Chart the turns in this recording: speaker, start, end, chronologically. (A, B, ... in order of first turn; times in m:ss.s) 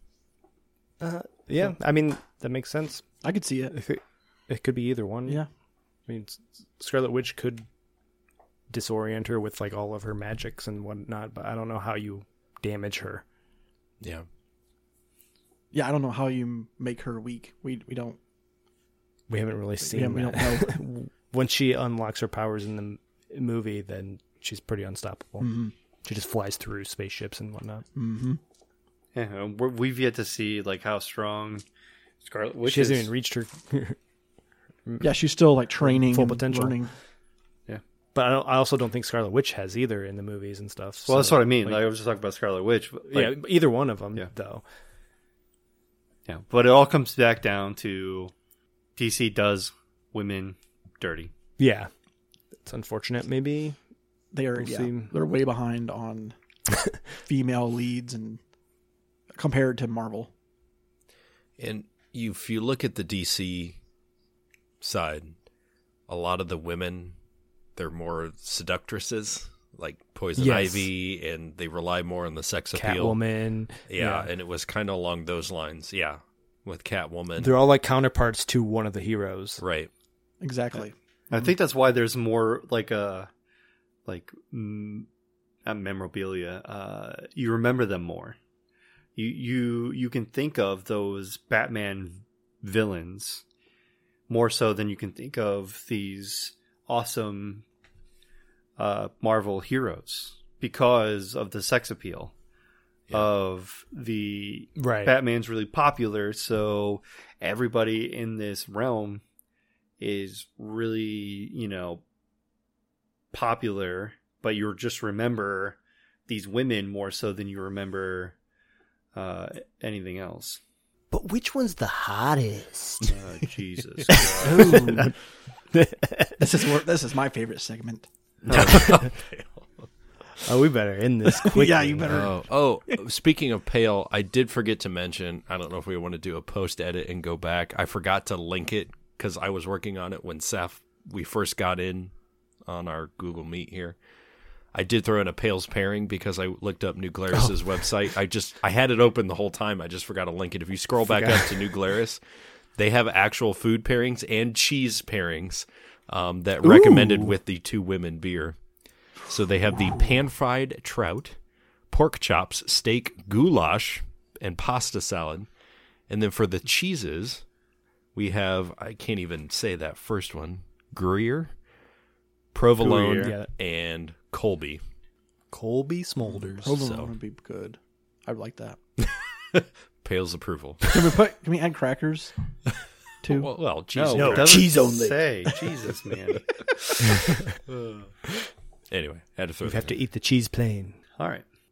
0:01.0-0:03.1 A
0:03.2-0:03.8 B
0:03.7-0:05.4 A
0:06.1-0:07.7 A
0:08.7-0:13.2 A
0:14.0-0:14.3 C
0:15.7-0:18.2 B
0:19.3-0:25.5 A
0:19.9-0:20.8 B
0:25.4-0:25.7 B
0:26.0-0:27.8 A
0:28.0-0:28.4 B
0:29.1-0:31.6 D
0:32.2-0:33.1 D
0:32.7-0:34.0 A
0:34.8-0:35.2 A
0:35.0-0:36.9 B
0:35.8-0:36.8 A
0:38.1-0:41.8 A
0:41.1-0:43.4 D
0:43.1-0:44.6 A
0:46.3-0:48.3 D
0:49.0-0:51.3 D
0:51.6-0:51.9 A
0:52.6-0:53.8 A
0:54.3-0:56.4 B
0:54.6-0:55.1 A
0:57.2-0:58.4 B
0:59.3-1:00.3 B
1:01.6-1:03.8 C
1:04.8-1:05.4 C
1:06.1-1:07.2 C
1:07.8-1:13.2 C
1:10.4-1:10.9 A
1:12.7-1:14.3 A
1:13.9-1:17.6 C
1:17.4-1:19.6 A
1:19.6-1:19.9 C
1:20.4-1:20.9 B
1:21.3-1:23.3 D
1:24.1-1:25.1 D
1:25.6-1:28.4 D
1:29.2-1:33.4 D
1:34.3-1:37.6 D
1:38.8-1:42.3 D
1:43.1-1:49.2 D
1:44.8-1:45.1 A
1:50.0-1:52.0 D
1:53.3-1:58.4 D
1:59.1-2:00.6 D
2:01.1-2:03.2 A
2:03.1-2:04.9 D
2:04.1-2:05.2 A
2:04.4-2:05.1 B
2:05.7-2:06.6 A
2:06.4-2:08.1 B
2:08.4-2:09.9 C
2:08.5-2:09.1 A
2:10.4-2:12.3 A
2:11.4-2:12.4 B
2:12.1-2:22.1 C
2:22.7-2:24.0 C
2:24.7-2:32.2 C
2:31.1-2:31.7 A
2:32.8-2:38.6 C
2:36.6-2:37.3 A
2:39.3-2:41.4 C
2:41.9-2:45.5 C
2:46.1-2:47.4 C
2:48.2-2:51.5 C
2:52.5-2:54.8 C
2:52.8-2:53.5 A
2:55.5-2:56.7 A
2:56.2-2:57.1 C
2:56.6-2:58.8 B
2:59.0-3:00.9 C
3:00.9-3:02.3 B
3:03.2-3:03.5 B
3:03.2-3:04.8 C
3:03.9-3:06.5 D
3:04.1-3:05.6 A
3:07.7-3:08.1 C
3:08.9-3:09.9 C
3:09.6-3:11.0 A
3:11.2-3:11.4 D